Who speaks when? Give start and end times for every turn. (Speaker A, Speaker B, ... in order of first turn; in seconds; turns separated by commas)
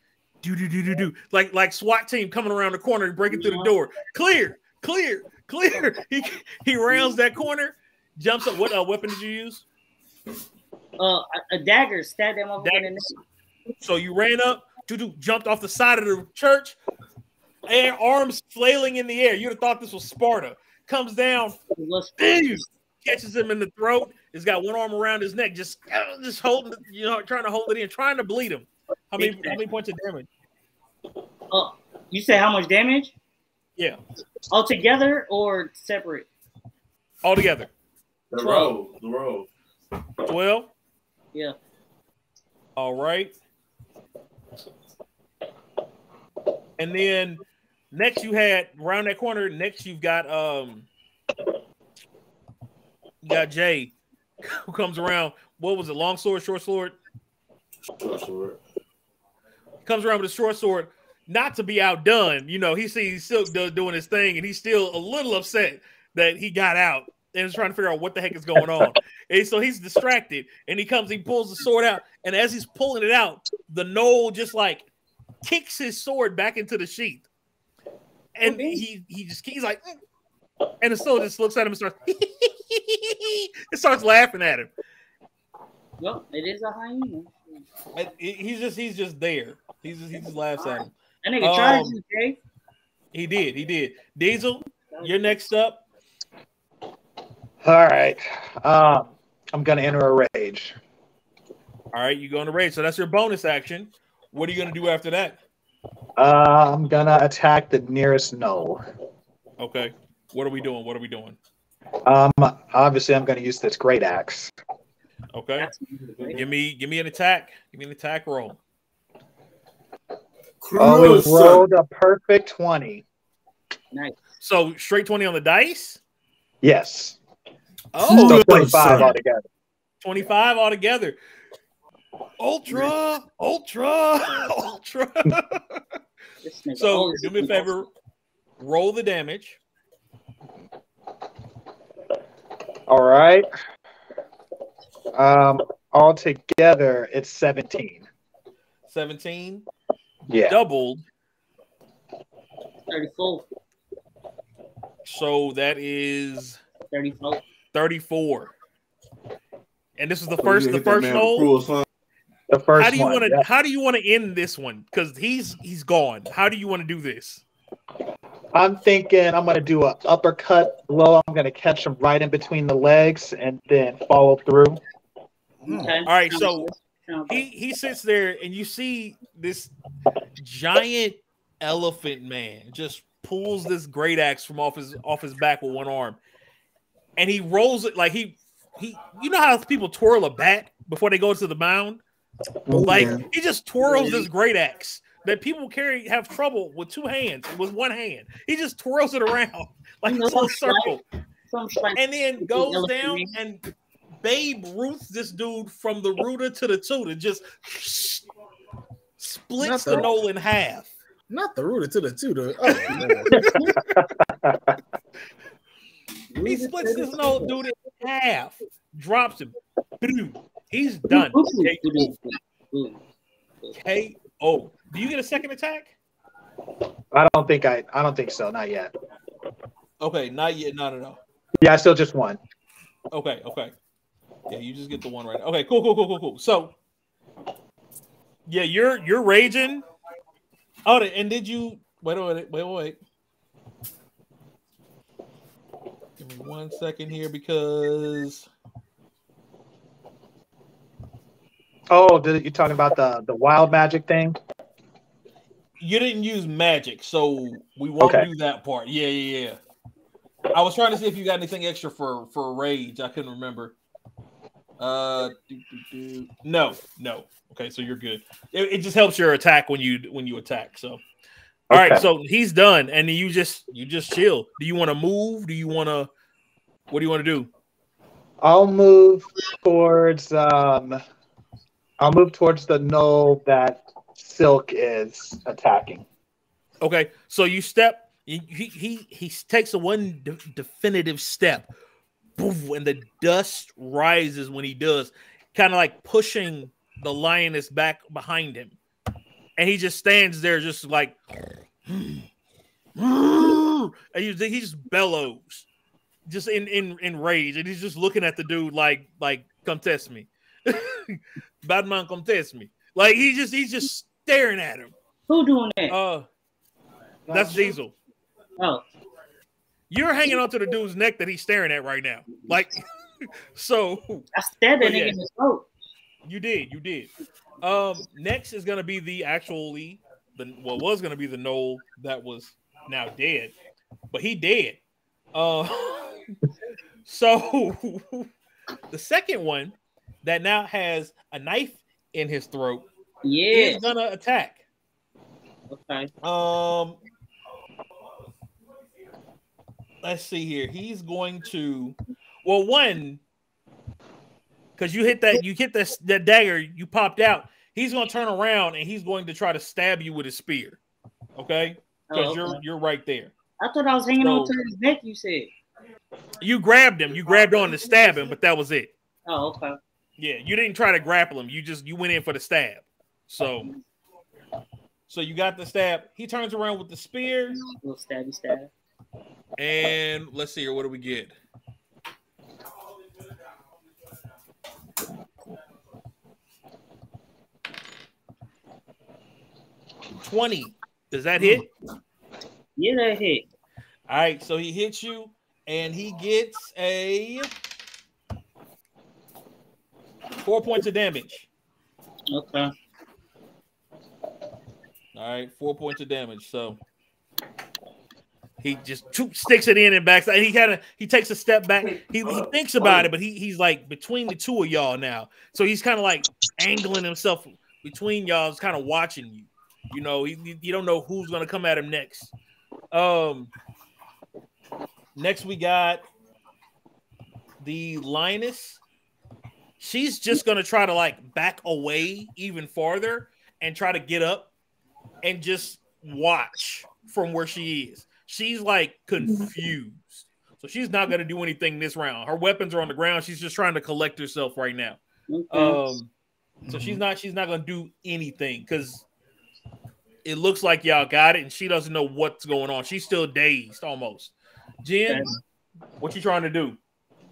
Speaker A: 0.4-9.7, Speaker B: 3.3-3.7, Speaker B: 11.0-13.1, Speaker A: 12.6-12.9, Speaker A: 13.8-16.8, Speaker A: 17.7-21.6, Speaker B: 21.7-22.6, Speaker A: 22.2-30.3, Speaker B: 29.2-29.6, Speaker B: 31.5-33.1, Speaker B: 34.5-36.3, Speaker A: 37.2-37.7, Speaker C: 38.3-39.5, Speaker B: 38.4-38.8, Speaker A: 40.2-40.7, Speaker A: 42.8-43.3, Speaker A: 46.8-47.4, Speaker A: 47.9-50.9, Speaker A: 53.2-57.0, Speaker C: 58.0-58.6, Speaker A: 59.9-74.9, Speaker A: 75.4-77.2, Speaker A: 78.4-79.9, Speaker B: 78.5-78.8, Speaker A: 80.8-84.7, Speaker B: 86.0-87.7, Speaker A: 88.0-92.0, Speaker B: 90.6-92.4, Speaker A: 93.1-95.8, Speaker B: 94.9-95.4, Speaker D: 97.6-100.8, Speaker A: 101.9-105.4, Speaker D: 106.2-108.8, Speaker A: 109.6-111.4, Speaker D: 112.1-114.5, Speaker A: 115.3-115.7, Speaker B: 115.6-116.4, Speaker A: 116.3-118.6, Speaker C: 120.6-121.7, Speaker D: 120.8-123.0, Speaker B: 123.9-124.2, Speaker A: 124.4-126.0, Speaker D: 126.6-127.2, Speaker A: 127.9-129.2, Speaker C: 128.1-129.0, Speaker D: 128.2-129.4, Speaker A: 130.0-131.2, Speaker A: 132.4-135.8, Speaker B: 136.4-137.7, Speaker A: 136.8-137.9, Speaker A: 138.6-139.6, Speaker D: 142.9-143.5, Speaker D: 145.2-148.1, Speaker A: 148.9-149.7, Speaker D: 150.3-150.6, Speaker A: 150.5-151.0, Speaker B: 152.9-153.5, Speaker A: 155.1-156.6, Speaker B: 156.9-157.4, Speaker A: 157.7-158.5, Speaker A: 160.0-161.5, Speaker C: 160.4-161.8, Speaker D: 162.5-163.4, Speaker A: 162.8-167.4, Speaker D: 168.5-174.8, Speaker E: 175.6-176.0, Speaker B: 175.7-177.5, Speaker A: 176.1-176.7, Speaker A: 177.3-179.7, Speaker A: 180.4-186.2, Speaker A: 187.2-192.0, Speaker D: 192.7-193.2, Speaker E: 192.7-193.2, Speaker A: 192.8-201.0, Speaker B: 193.8-194.3, Speaker B: 200.1-200.9, Speaker B: 201.5-203.3, Speaker A: 201.9-203.6, Speaker A: 204.2-208.3, Speaker A: 209.2-210.9, Speaker E: 209.6-210.1, Speaker E: 211.3-213.4, Speaker B: 212.9-213.7, Speaker D: 213.8-214.8, Speaker B: 216.3-217.5, Speaker A: 216.4-222.1, Speaker B: 221.1-223.0, Speaker A: 223.8-225.9, Speaker D: 227.1-228.9, Speaker A: 230.0-231.2, Speaker D: 231.6-232.4, Speaker A: 233.1-233.7, Speaker A: 234.5-236.7, Speaker A: 238.5-239.8, Speaker A: 240.9-243.0, Speaker A: 246.2-248.5, Speaker D: 251.9-254.4, Speaker A: 255.8-259.6, Speaker D: 258.0-258.3, Speaker A: 260.5-263.8, Speaker A: 264.8-271.0, Speaker D: 271.7-272.1, Speaker A: 271.7-276.1, Speaker A: 276.9-277.5, Speaker D: 278.4-281.0, Speaker D: 282.0-286.1, Speaker A: 286.8-291.7, Speaker A: 292.4-298.8, Speaker A: 299.6-301.1, Speaker A: 301.9-302.3, Speaker A: 303.0-305.7, Speaker A: 306.3-314.9, Speaker B: 315.3-316.0, Speaker A: 315.9-316.3, Speaker B: 317.3-317.7, Speaker A: 317.3-317.9, Speaker B: 318.6-318.9, Speaker A: 319.9-322.8, Speaker A: 323.6-324.3, Speaker B: 324.4-325.7, Speaker A: 324.8-325.2, Speaker A: 326.2-333.5, Speaker A: 334.1-334.8, Speaker A: 335.4-336.3, Speaker A: 337.1-338.3, Speaker A: 338.9-342.9, Speaker B: 343.2-343.8, Speaker A: 343.5-344.6, Speaker B: 345.7-346.1, Speaker A: 346.2-347.0, Speaker A: 350.0-353.2, Speaker A: 354.8-360.8, Speaker A: 361.4-363.3, Speaker B: 362.1-362.6, Speaker B: 363.6-365.5, Speaker A: 364.2-364.5, Speaker A: 366.4-368.9, Speaker B: 369.3-369.8, Speaker A: 370.2-373.7, Speaker A: 375.1-377.6, Speaker B: 377.6-378.7, Speaker A: 379.6-381.4, Speaker A: 390.2-391.7, Speaker B: 392.8-393.5, Speaker A: 394.1-397.5, Speaker A: 400.4-401.5, Speaker B: 402.3-402.7, Speaker A: 405.1-406.8, Speaker A: 408.6-422.3, Speaker C: 412.0-413.1, Speaker A: 422.9-423.5, Speaker A: 425.2-426.0, Speaker A: 427.6-428.8, Speaker A: 429.8-434.5, Speaker A: 435.2-446.1, Speaker B: 445.3-445.8, Speaker E: 446.6-447.0, Speaker A: 446.7-449.1, Speaker A: 450.2-455.3, Speaker A: 456.0-456.8